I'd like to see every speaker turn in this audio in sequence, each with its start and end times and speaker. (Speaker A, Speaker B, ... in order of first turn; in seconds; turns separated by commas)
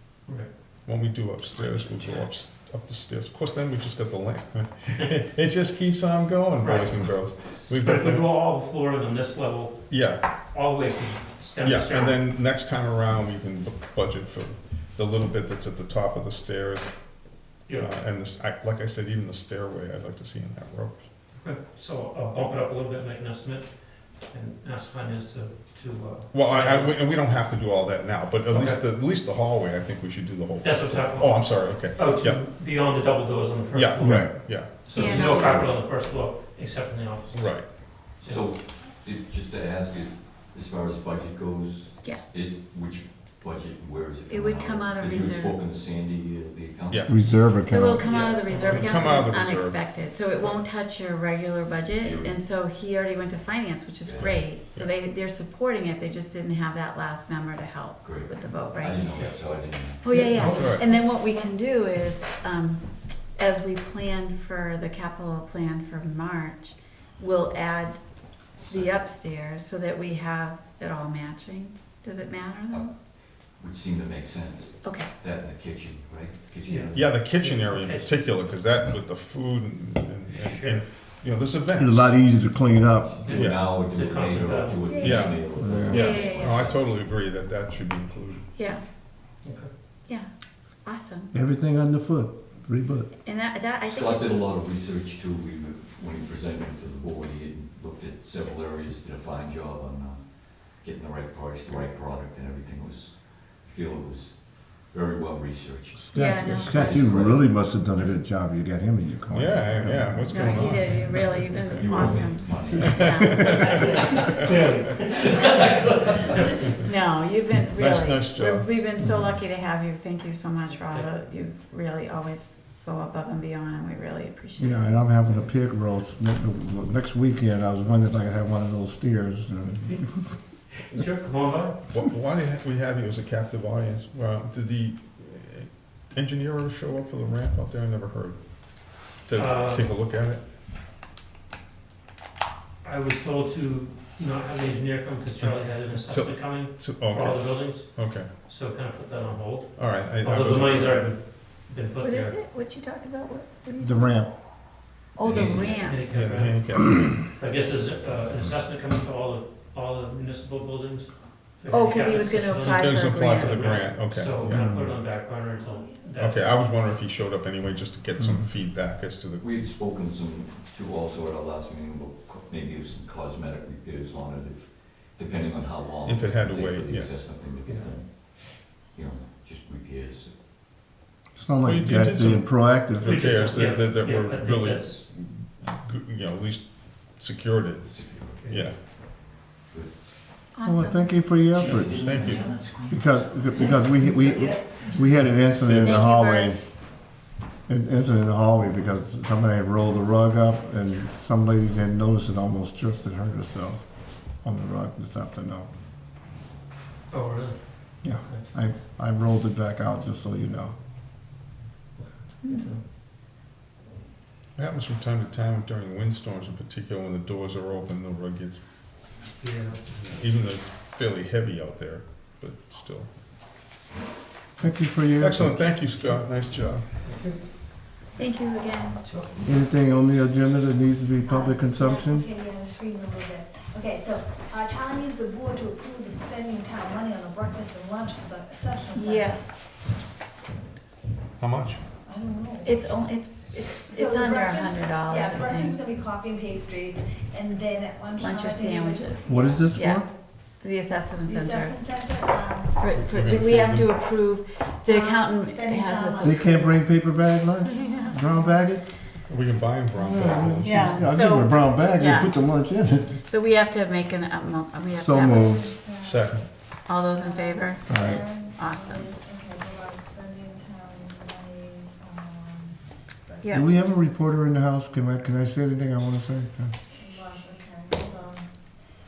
Speaker A: 0.8-8.3, Speaker B: 6.6-9.8, Speaker A: 9.9-10.3, Speaker B: 10.4-12.2, Speaker A: 11.6-16.9, Speaker A: 17.7-21.0, Speaker B: 21.4-27.0, Speaker A: 26.3-32.4, Speaker B: 28.5-28.8, Speaker B: 30.6-38.5, Speaker A: 33.7-35.0, Speaker C: 34.0-34.3, Speaker D: 34.9-35.6, Speaker E: 35.1-35.8, Speaker A: 37.3-37.8, Speaker E: 38.0-47.6, Speaker D: 44.3-45.6, Speaker A: 46.9-47.1, Speaker C: 47.1-48.1, Speaker D: 47.5-59.1, Speaker B: 48.0-49.3, Speaker A: 48.5-49.8, Speaker E: 52.0-52.4, Speaker E: 54.0-54.4, Speaker E: 58.0-60.3, Speaker B: 59.1-59.4, Speaker D: 60.0-72.9, Speaker B: 60.1-60.7, Speaker A: 60.5-60.9, Speaker F: 60.5-61.5, Speaker E: 68.6-69.0, Speaker E: 72.7-77.2, Speaker D: 74.8-75.1, Speaker B: 76.7-78.2, Speaker A: 76.9-82.2, Speaker E: 80.3-80.8, Speaker C: 81.7-83.2, Speaker E: 82.7-86.9, Speaker B: 83.2-85.3, Speaker A: 83.3-83.6, Speaker D: 84.9-86.6, Speaker A: 85.0-85.4, Speaker C: 85.6-86.2, Speaker A: 86.1-88.4, Speaker D: 88.6-88.8, Speaker B: 89.4-89.7, Speaker D: 90.8-91.3, Speaker C: 91.3-93.1, Speaker D: 93.2-94.5, Speaker E: 93.8-107.6, Speaker C: 106.1-110.7, Speaker D: 106.1-106.8, Speaker A: 109.3-111.5, Speaker D: 110.3-114.4, Speaker E: 111.8-113.6, Speaker A: 112.8-114.8, Speaker B: 114.3-116.7, Speaker E: 114.5-116.3, Speaker D: 116.8-124.9, Speaker A: 117.7-118.7, Speaker C: 119.0-119.3, Speaker C: 124.6-130.3, Speaker B: 130.9-131.8, Speaker A: 131.9-140.4, Speaker B: 139.3-139.9, Speaker B: 142.8-152.3, Speaker A: 145.4-148.3, Speaker A: 149.8-151.1, Speaker D: 152.0-154.2, Speaker C: 153.8-154.3, Speaker D: 155.2-156.1, Speaker A: 155.2-157.2, Speaker B: 155.2-166.5, Speaker D: 161.7-163.7, Speaker A: 162.7-164.8, Speaker C: 164.4-165.0, Speaker F: 165.6-166.0, Speaker A: 166.2-169.5, Speaker C: 168.2-168.5, Speaker E: 169.4-180.3, Speaker A: 176.0-177.1, Speaker B: 177.6-178.0, Speaker C: 181.3-183.2, Speaker A: 181.6-188.8, Speaker B: 183.0-185.0, Speaker E: 187.8-188.4, Speaker B: 188.4-188.7, Speaker D: 190.5-191.3, Speaker C: 190.6-196.6, Speaker E: 191.5-193.2, Speaker A: 191.9-192.6, Speaker A: 195.4-196.0, Speaker D: 195.8-196.5, Speaker C: 197.7-203.8, Speaker C: 204.3-205.7, Speaker B: 207.1-208.4, Speaker C: 208.0-210.7, Speaker B: 212.0-212.8, Speaker A: 214.6-218.6, Speaker B: 219.4-219.8, Speaker A: 219.9-223.1, Speaker C: 224.6-225.8, Speaker A: 225.2-226.8, Speaker B: 227.0-227.4, Speaker D: 228.2-229.0, Speaker B: 229.0-229.3, Speaker C: 229.4-232.3, Speaker F: 231.3-239.5, Speaker D: 238.8-239.6, Speaker A: 241.4-241.8, Speaker F: 242.0-242.8, Speaker D: 242.6-245.8, Speaker F: 243.9-249.7, Speaker D: 248.2-251.8, Speaker C: 249.2-250.1, Speaker F: 251.2-252.8, Speaker D: 252.8-256.4, Speaker A: 252.9-254.0, Speaker F: 254.8-256.7, Speaker C: 256.2-258.9, Speaker D: 257.6-258.2, Speaker A: 259.3-261.0, Speaker C: 259.9-263.2, Speaker D: 260.6-262.4, Speaker D: 263.2-265.5, Speaker C: 264.9-265.7, Speaker F: 265.5-266.2, Speaker A: 265.9-266.5, Speaker D: 266.9-268.0, Speaker F: 267.1-273.6, Speaker C: 267.9-268.2, Speaker D: 268.5-269.0, Speaker C: 273.5-276.7, Speaker F: 276.9-278.5